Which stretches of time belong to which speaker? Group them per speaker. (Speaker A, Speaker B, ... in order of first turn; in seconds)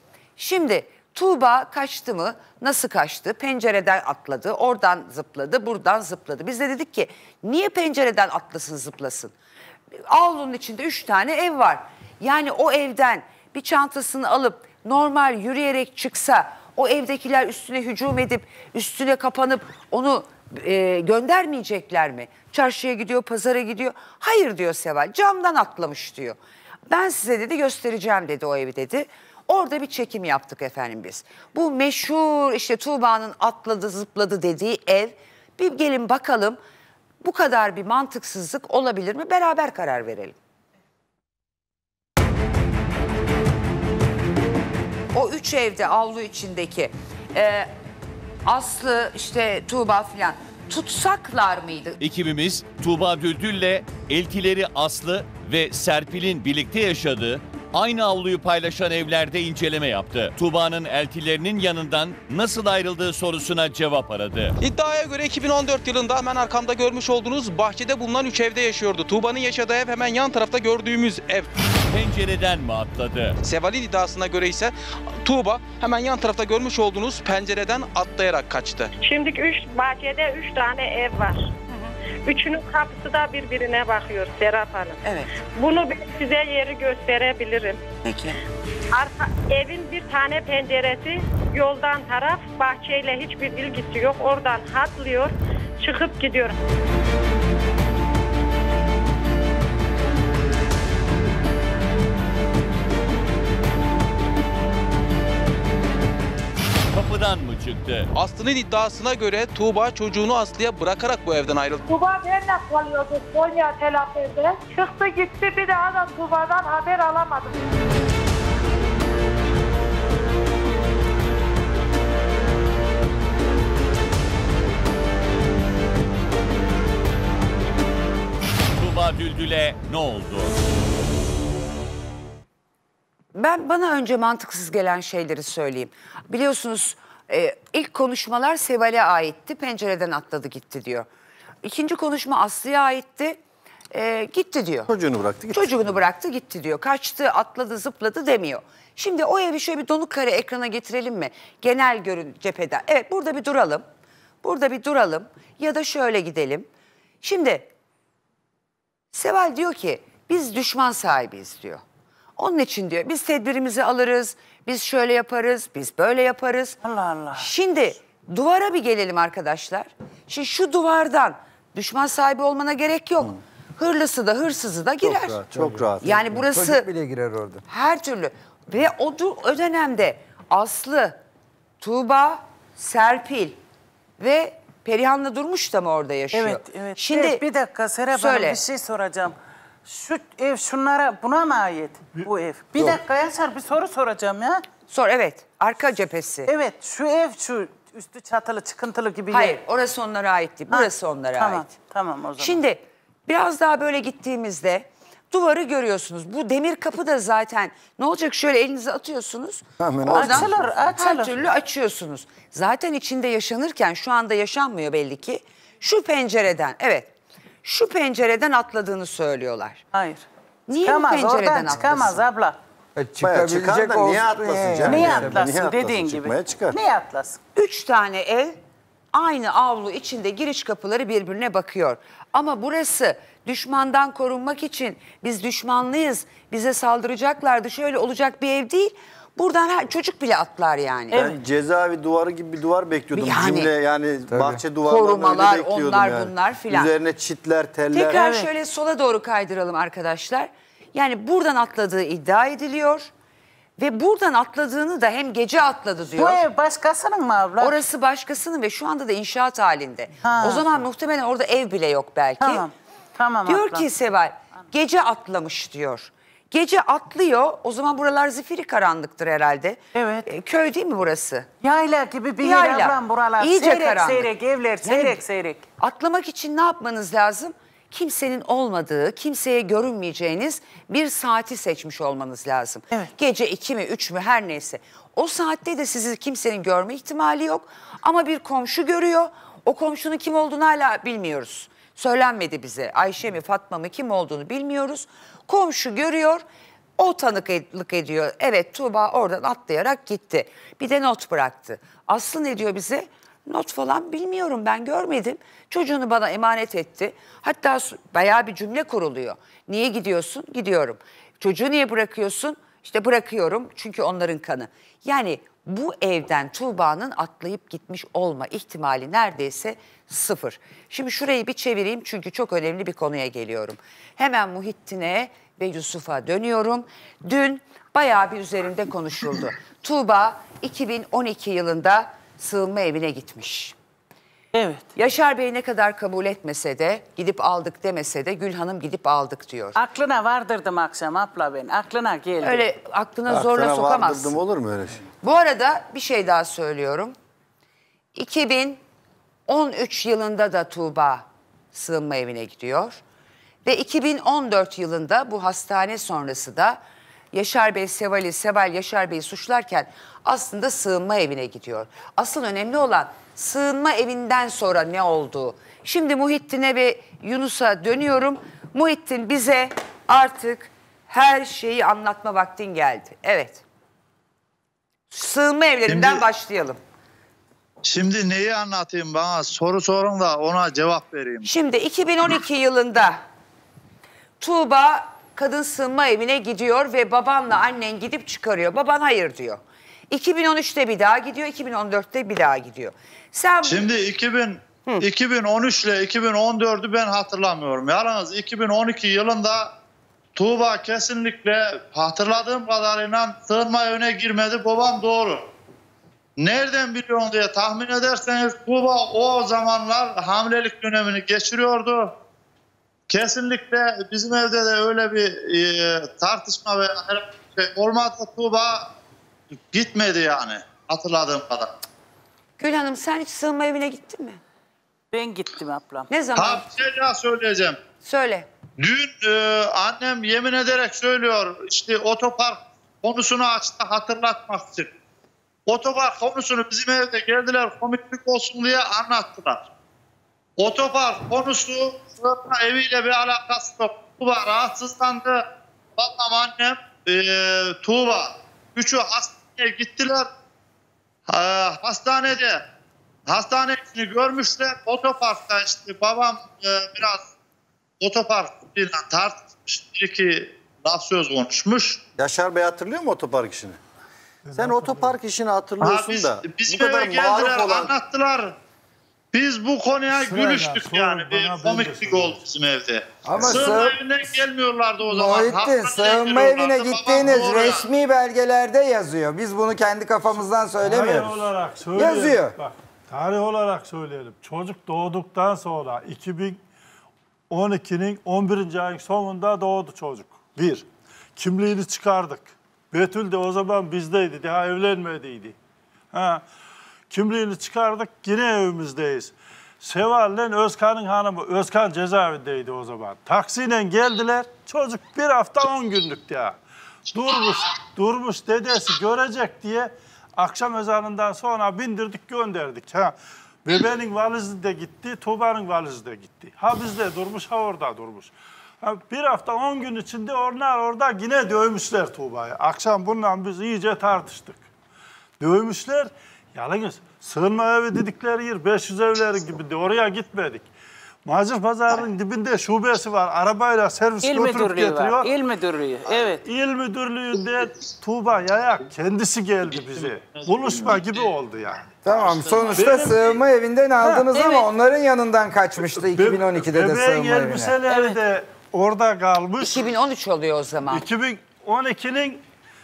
Speaker A: 0.4-9.3, 10.1-26.4, 26.9-36.6, 37.2-40.4, 45.1-47.7, 48.5-52.0, 85.0-85.3, 88.0-88.4, 133.3-141.1, 141.6-143.4, 143.9-144.9, 145.5-153.8, 154.4-156.7, 157.2-157.7, 159.1-161.8, 162.4-166.8, 167.3-175.4, 176.0-176.9, 177.7-181.2, 181.8-183.6, 184.2-187.4, 188.1-188.6, 194.9-196.5, 199.3-201.7, 202.4-217.1, 217.6-219.8, 220.7-222.2, 227.6-228.6, 229.1-241.3, 243.1-243.7, 244.9-246.9, 247.9-253.1, 253.8-256.4, 257.6-262.7, 263.5-271.5, 272.4-274.3, 274.8-275.2, 275.8-296.4, 297.0-333.8, 335.0-339.8, 342.4-344.4, 345.2-347.2, 348.1-348.8, 349.5-353.0, 353.6-356.8, 357.3-373.6, 375.1-376.8, 381.4-383.2, 384.4-393.9, 422.6-424.4, 426.1-426.7, 428.0-428.5, 549.6-551.1
Speaker B: 52.0-64.5, 71.9-73.3, 106.9-108.1, 128.8-130.5
Speaker C: 64.6-71.5, 73.4-78.9, 108.1-111.8
Speaker D: 79.0-81.5, 82.2-85.0, 85.5-87.8, 88.9-96.6, 111.9-117.6
Speaker E: 144.9-146.0, 175.0-176.4, 209.8-211.0, 223.2-226.8, 241.1-248.2, 343.3-345.0, 462.2-463.8, 464.6-467.9, 473.4-473.7
Speaker F: 166.8-167.5, 186.3-189.3, 189.9-194.6, 196.5-199.6, 200.7-202.6, 210.1-211.3, 219.9-220.2, 220.8-222.6, 224.8-227.4, 248.1-248.5, 256.2-257.8, 260.2-260.7, 262.4-263.9, 269.9-270.3, 271.6-275.6, 334.6-334.9, 339.8-342.6, 425.1-426.1, 534.2-536.4, 542.3-543.1, 544.3-544.7, 547.9-548.2
Speaker G: 175.6-175.9, 176.5-177.6, 223.0-225.5, 244.3-244.6, 473.2-474.0, 475.0-482.6, 542.0-547.8
Speaker H: 192.1-193.0, 464.4-465.2, 470.1-472.4, 480.8-486.6, 487.5-490.9, 491.4-495.6, 496.1-496.4, 497.1-506.6, 507.1-524.6, 525.4-530.7, 531.2-535.3, 536.4-541.9, 542.8-543.2, 544.0-544.3, 545.9-549.9, 550.9-552.4
Speaker I: 375.9-376.2, 377.9-381.5, 393.6-399.7, 400.4-405.5, 406.4-412.1, 413.1-418.9, 419.7-421.7, 426.4-427.8, 428.8-434.9, 435.7-439.6, 440.6-445.4, 446.0-450.3, 451.3-452.6, 453.3-457.3, 458.0-462.0, 465.8-468.6, 469.3-477.9